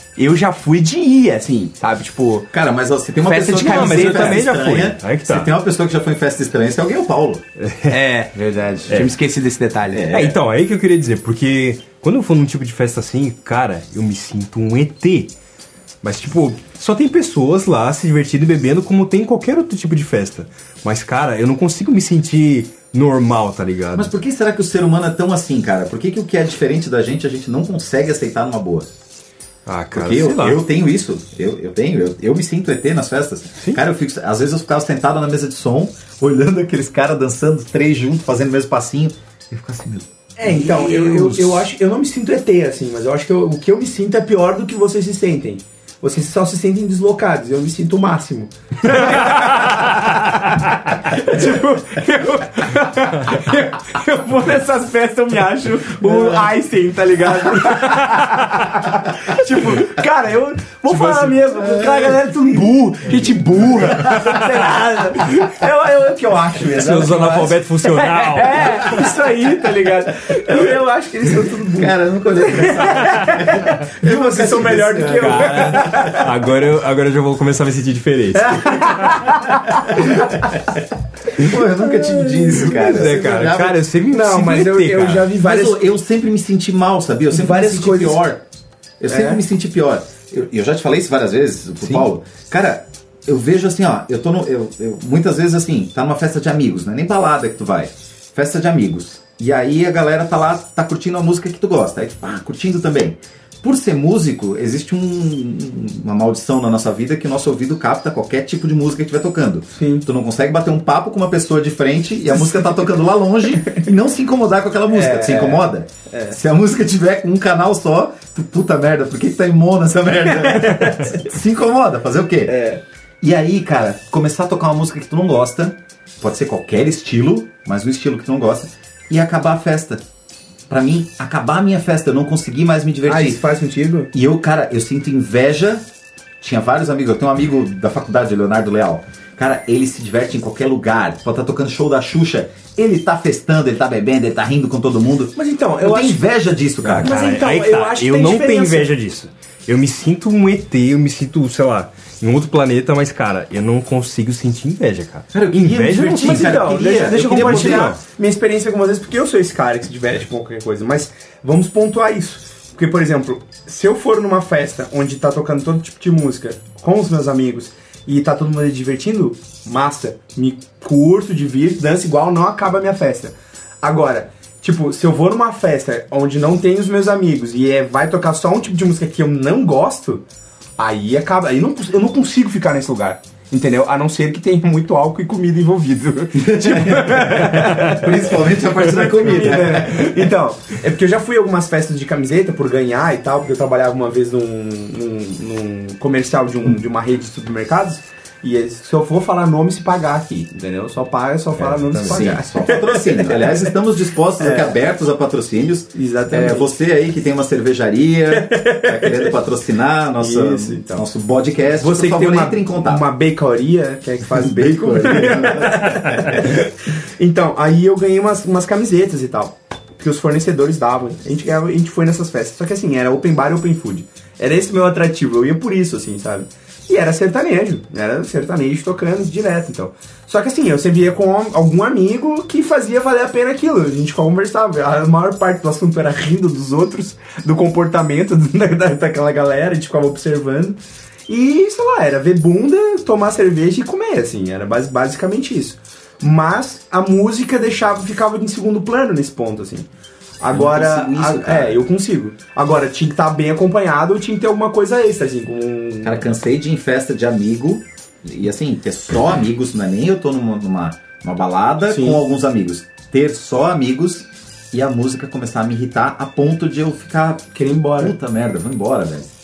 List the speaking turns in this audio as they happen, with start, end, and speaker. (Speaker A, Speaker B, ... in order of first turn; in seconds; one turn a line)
Speaker A: 0.2-2.5
Speaker B: 2.5-7.4
Speaker A: 3.2-4.4
Speaker C: 3.6-5.5
Speaker C: 7.6-8.0
Speaker A: 7.9-10.1
Speaker B: 9.9-10.4
Speaker C: 10.1-15.3
Speaker C: 16.0-24.1
Speaker B: 23.9-28.9
Speaker C: 29.6-30.6
Speaker B: 29.9-41.6
Speaker A: 40.4-76.3
Speaker C: 49.4-49.8
Speaker B: 56.0-56.5
Speaker C: 57.8-58.6
Speaker C: 61.0-61.4
Speaker B: 61.6-62.1
Speaker C: 64.1-64.4
Speaker C: 66.7-69.1
Speaker B: 71.7-76.1
Speaker C: 75.2-79.4
Speaker A: 78.3-80.6
Speaker B: 79.9-80.7
Speaker B: 81.3-83.8
Speaker A: 81.5-83.1
Speaker C: 82.5-85.3
Speaker A: 84.1-85.8
Speaker B: 85.4-88.4
Speaker A: 87.3-88.3
Speaker B: 89.0-122.5
Speaker A: 89.1-89.4
Speaker A: 109.7-110.0
Speaker A: 112.5-112.9
Speaker A: 113.6-113.8
Speaker A: 114.9-116.4
Speaker A: 120.2-121.3
Speaker A: 122.5-122.8
Speaker B: 123.2-130.0
Speaker B: 130.7-133.4
Speaker A: 133.1-134.1
Speaker B: 134.1-135.8
Speaker B: 136.4-147.1
Speaker A: 145.3-146.2
Speaker C: 146.8-158.0
Speaker A: 147.0-148.9
Speaker B: 155.3-158.0
Speaker A: 155.9-180.2
Speaker A: 180.8-203.7
Speaker B: 186.3-190.3
Speaker C: 201.6-202.3
Speaker B: 202.1-213.0
Speaker A: 204.4-204.8
Speaker A: 205.9-206.7
Speaker A: 208.3-209.3
Speaker A: 210.2-211.0
Speaker A: 211.8-249.9
Speaker B: 214.3-216.4
Speaker A: 250.4-256.3
Speaker B: 250.5-251.8
Speaker B: 256.0-269.3
Speaker A: 261.9-262.2
Speaker A: 267.5-268.1